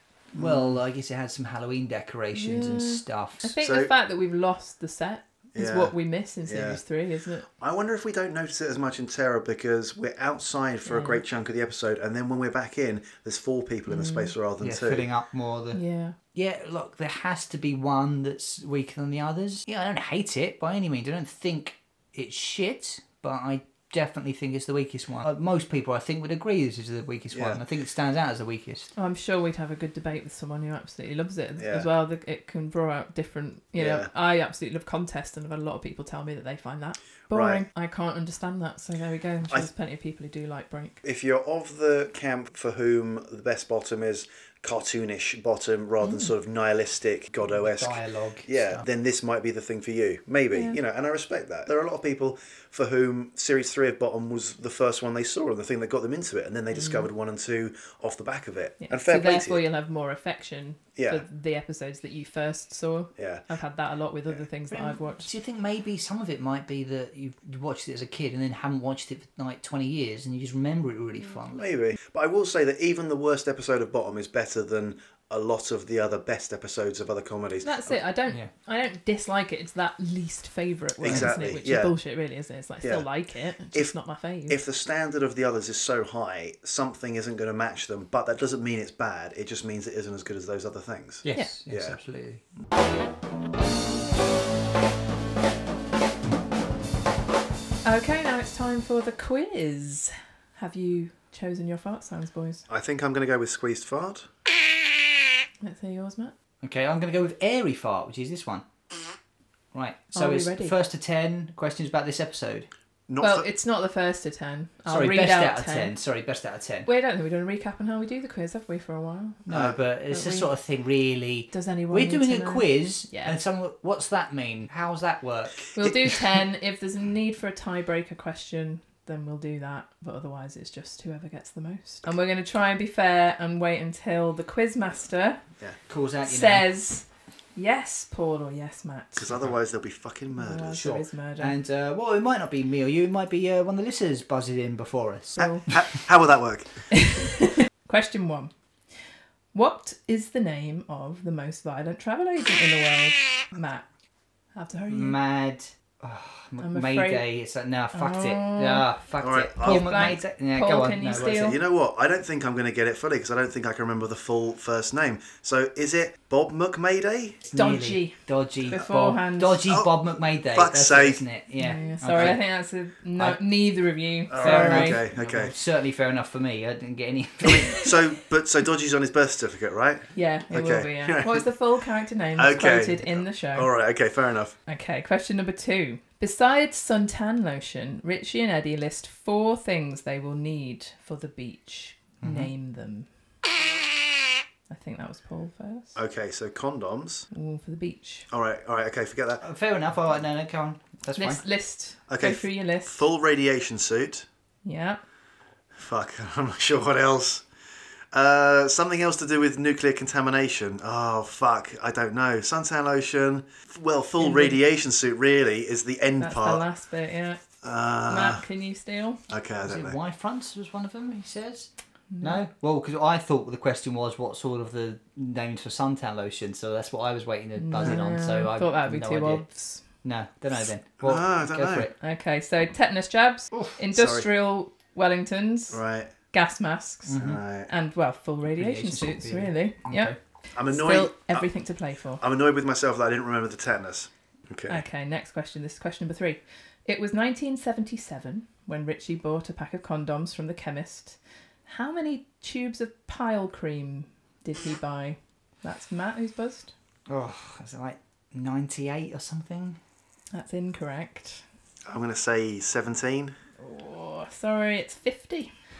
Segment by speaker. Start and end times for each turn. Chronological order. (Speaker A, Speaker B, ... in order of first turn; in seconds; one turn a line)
Speaker A: 0.3-3.5
Speaker B: 0.3-0.8
Speaker C: 2.3-7.5
Speaker B: 3.6-3.9
Speaker B: 5.5-6.8
Speaker B: 7.6-15.1
Speaker C: 10.8-11.2
Speaker C: 13.9-14.3
Speaker A: 14.6-15.8
Speaker C: 15.7-16.1
Speaker A: 16.3-28.9
Speaker B: 27.3-27.6
Speaker C: 28.9-41.0
Speaker B: 31.6-31.9
Speaker B: 33.8-34.1
Speaker B: 37.3-37.6
Speaker B: 41.0-59.6
Speaker C: 46.0-46.3
Speaker A: 47.5-48.8
Speaker C: 56.7-57.1
Speaker C: 58.8-65.3
Speaker B: 61.0-61.2
Speaker A: 64.7-71.6
Speaker B: 71.5-78.0
Speaker C: 77.6-84.6
Speaker B: 81.0-82.0
Speaker A: 81.1-81.6
Speaker B: 82.8-83.1
Speaker B: 84.5-92.0
Speaker A: 91.2-92.4
Speaker C: 97.8-102.6
Speaker B: 102.7-104.3
Speaker C: 105.6-106.3
Speaker A: 106.6-108.6
Speaker A: 109.7-112.7
Speaker C: 110.1-110.7
Speaker B: 113.1-113.5
Speaker C: 113.2-115.9
Speaker A: 114.9-116.9
Speaker C: 116.8-119.4
Speaker A: 119.5-125.9
Speaker B: 119.5-119.8
Speaker C: 120.1-120.5
Speaker C: 121.5-123.4
Speaker C: 125.7-135.4
Speaker A: 135.9-136.7
Speaker C: 136.2-139.3
Speaker B: 139.2-140.8
Speaker C: 140.3-141.5
Speaker A: 140.7-145.8
Speaker C: 145.4-145.8
Speaker B: 145.4-147.0
Speaker C: 146.9-148.5
Speaker C: 149.5-153.8
Speaker C: 154.5-155.2
Speaker A: 154.9-161.5
Speaker C: 156.6-157.2
Speaker C: 157.9-158.9
Speaker B: 159.2-160.2
Speaker C: 159.6-161.6
Speaker B: 161.1-167.4
Speaker A: 167.5-172.4
Speaker C: 167.5-169.7
Speaker B: 169.7-171.2
Speaker C: 171.6-175.0
Speaker B: 174.3-175.5
Speaker A: 174.4-177.8
Speaker B: 177.4-181.5
Speaker C: 180.1-183.7
Speaker B: 182.3-184.6
Speaker C: 184.7-193.1
Speaker A: 192.2-192.5
Speaker C: 194.7-196.0
Speaker B: 195.9-197.2
Speaker C: 197.3-198.3
Speaker B: 198.3-199.4
Speaker A: 199.4-201.4
Speaker C: 201.2-203.0
Speaker B: 202.1-204.2
Speaker C: 204.6-205.0
Speaker B: 205.7-207.4
Speaker B: 208.1-216.6
Speaker C: 214.2-214.6
Speaker C: 216.2-217.4
Speaker B: 217.6-218.4
Speaker C: 218.1-219.2
Speaker B: 219.3-219.9
Speaker A: 219.6-221.7
Speaker C: 222.1-222.4
Speaker A: 222.2-231.9
Speaker C: 227.6-229.8
Speaker B: 231.0-231.9
Speaker C: 232.0-235.8
Speaker A: 233.5-233.8
Speaker B: 233.9-234.2
Speaker B: 235.7-236.1
Speaker C: 236.3-240.1
Speaker A: 237.1-237.4
Speaker B: 237.2-237.7
Speaker A: 238.5-240.2
Speaker B: 240.5-241.4
Speaker C: 240.7-242.2
Speaker B: 242.2-244.8
Speaker C: 244.7-256.7
Speaker A: 257.1-259.8
Speaker C: 260.3-261.4
Speaker B: 261.9-263.3
Speaker C: 263.6-265.5